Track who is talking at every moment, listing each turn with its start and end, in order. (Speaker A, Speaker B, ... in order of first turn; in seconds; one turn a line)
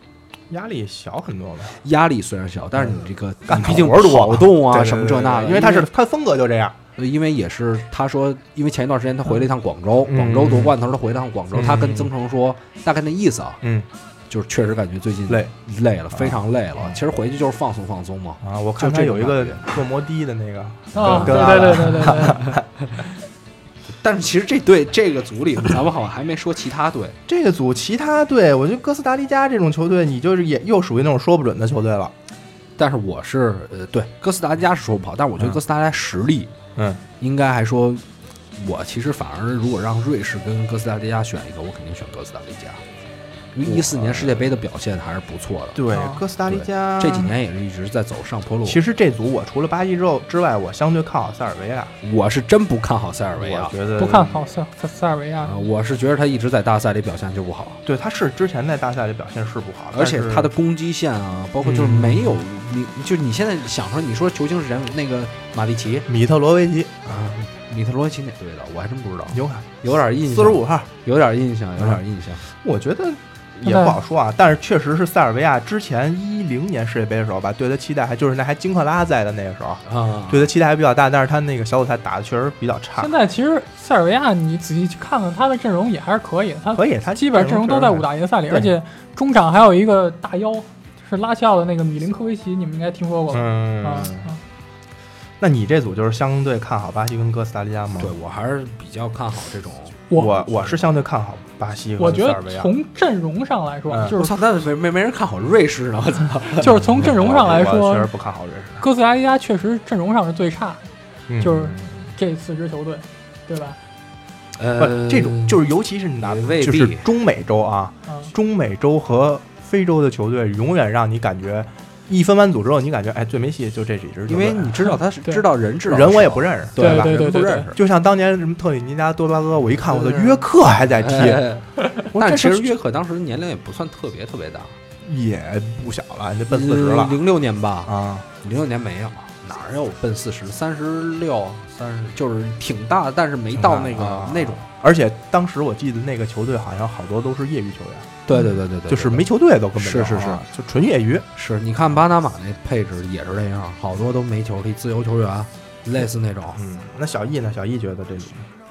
Speaker A: 0.5-1.8
Speaker B: 1.8-5.9
Speaker A: 2.8-6.8
Speaker B: 7.0-13.6
Speaker A: 10.1-10.8
Speaker A: 11.5-12.1
Speaker A: 13.6-13.9
Speaker B: 14.3-19.6
Speaker A: 16.1-17.0
Speaker A: 18.4-22.6
Speaker C: 20.9-22.4
Speaker B: 20.9-23.0
Speaker B: 24.0-27.2
Speaker A: 27.3-32.1
Speaker B: 32.8-36.5
Speaker A: 36.8-37.0
Speaker B: 37.2-38.0
Speaker B: 38.5-42.8
Speaker B: 43.5-45.8
Speaker A: 43.6-44.5
Speaker A: 45.7-47.3
Speaker C: 45.9-46.2
Speaker B: 46.5-48.8
Speaker A: 48.6-51.9
Speaker B: 52.0-53.8
Speaker A: 53.4-54.4
Speaker C: 54.0-55.6
Speaker B: 55.4-57.8
Speaker A: 57.8-60.5
Speaker B: 59.9-66.1
Speaker A: 61.6-62.4
Speaker A: 66.1-67.1
Speaker B: 67.0-72.4
Speaker A: 69.3-70.9
Speaker A: 71.8-83.1
Speaker C: 73.6-74.0
Speaker B: 79.8-80.5
Speaker C: 83.0-94.4
Speaker A: 86.7-88.8
Speaker A: 93.3-94.3
Speaker A: 95.4-98.1
Speaker B: 98.0-100.0
Speaker C: 100.1-100.4
Speaker A: 100.1-102.7
Speaker C: 102.0-104.4
Speaker A: 103.9-104.2
Speaker B: 104.1-107.1
Speaker C: 106.6-108.1
Speaker A: 106.6-108.8
Speaker C: 108.8-110.8
Speaker A: 111.3-112.1
Speaker C: 111.4-113.8
Speaker B: 114.5-115.6
Speaker A: 114.8-124.9
Speaker B: 116.2-117.1
Speaker C: 118.1-118.3
Speaker B: 124.3-127.8
Speaker A: 125.9-127.1
Speaker C: 126.8-127.7
Speaker A: 127.7-132.8
Speaker B: 129.8-134.7
Speaker A: 135.0-137.2
Speaker B: 136.5-144.6
Speaker A: 137.8-138.2
Speaker A: 143.5-148.2
Speaker B: 148.3-150.4
Speaker A: 148.9-151.3
Speaker B: 151.3-156.6
Speaker A: 156.6-158.5